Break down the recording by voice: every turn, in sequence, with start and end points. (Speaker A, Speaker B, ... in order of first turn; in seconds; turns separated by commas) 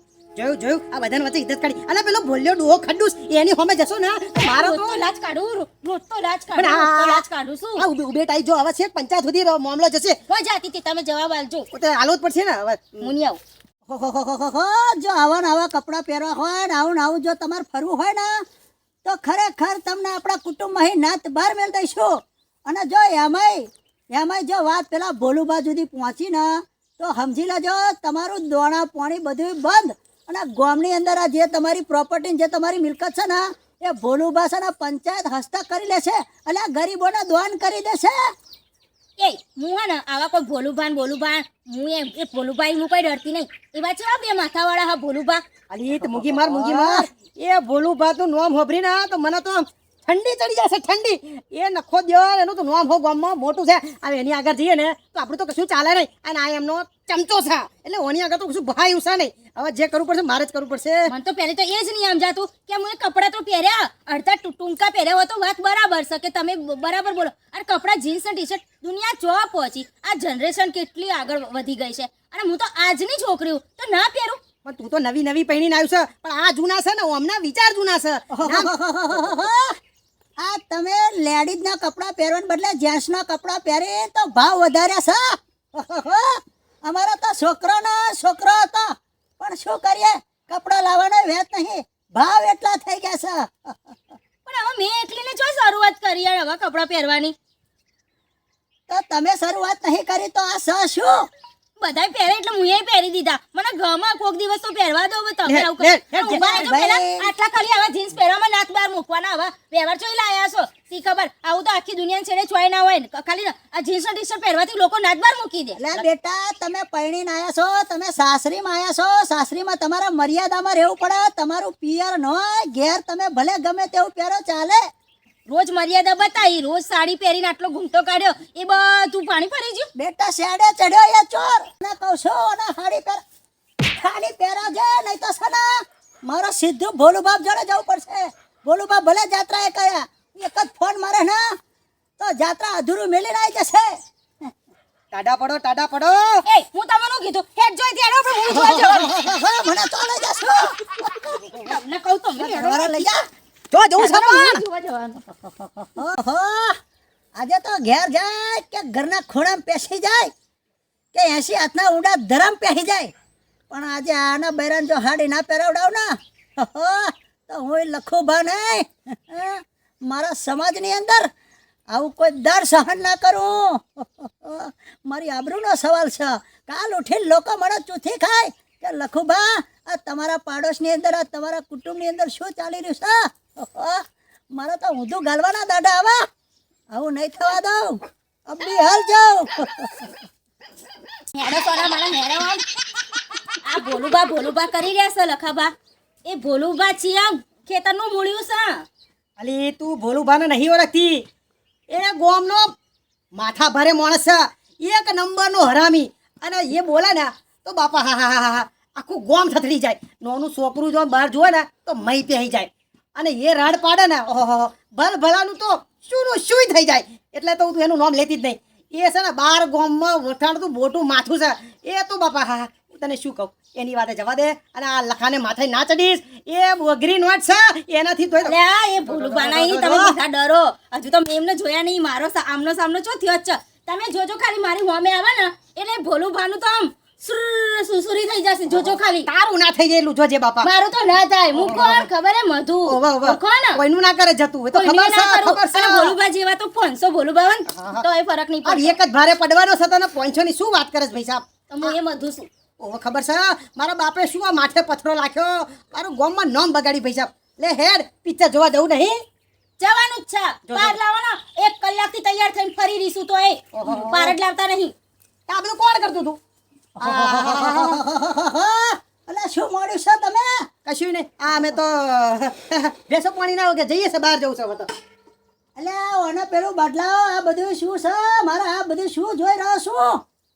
Speaker A: 0.3-5.0, Speaker B: 4.3-7.8, Speaker A: 6.5-7.2, Speaker A: 7.8-10.2, Speaker B: 10.3-11.7, Speaker A: 11.7-13.1, Speaker B: 13.0-13.4, Speaker C: 13.9-18.3, Speaker C: 19.0-22.1, Speaker C: 22.6-38.2, Speaker B: 39.2-45.4, Speaker A: 45.7-61.1, Speaker C: 46.4-47.0, Speaker B: 61.1-74.4, Speaker A: 74.6-79.5, Speaker C: 78.3-79.7, Speaker C: 80.4-94.0, Speaker B: 94.5-97.3, Speaker C: 98.9-101.2, Speaker B: 101.8-116.0, Speaker A: 105.5-106.7, Speaker C: 106.3-107.3, Speaker C: 115.8-124.8, Speaker B: 125.5-129.9, Speaker C: 129.9-133.2, Speaker C: 134.0-135.7, Speaker C: 136.2-141.5, Speaker C: 142.2-144.0, Speaker A: 145.1-146.4, Speaker B: 146.4-149.1, Speaker C: 148.5-151.7, Speaker B: 151.6-153.1, Speaker C: 152.4-153.2, Speaker A: 153.7-154.6, Speaker B: 154.0-155.2, Speaker C: 155.8-156.8, Speaker C: 157.3-160.3, Speaker C: 161.1-163.1, Speaker C: 163.7-171.3, Speaker C: 171.9-184.0, Speaker C: 184.5-186.2, Speaker C: 186.9-190.2, Speaker B: 191.3-192.6, Speaker B: 193.7-195.7, Speaker B: 196.3-198.8, Speaker A: 199.4-201.2, Speaker A: 201.9-202.7, Speaker A: 203.3-228.5, Speaker B: 228.4-239.3, Speaker A: 229.1-230.2, Speaker A: 238.7-240.7, Speaker B: 240.6-243.8, Speaker A: 241.5-242.1, Speaker A: 242.8-246.2, Speaker B: 244.7-248.9, Speaker A: 247.7-248.0, Speaker A: 248.6-251.9, Speaker B: 251.7-252.5, Speaker A: 252.8-259.2, Speaker B: 259.8-264.9, Speaker A: 260.7-261.0, Speaker A: 263.7-264.4, Speaker A: 265.5-266.4, Speaker C: 267.0-270.6, Speaker A: 267.0-268.0, Speaker A: 270.8-274.9, Speaker C: 275.8-280.2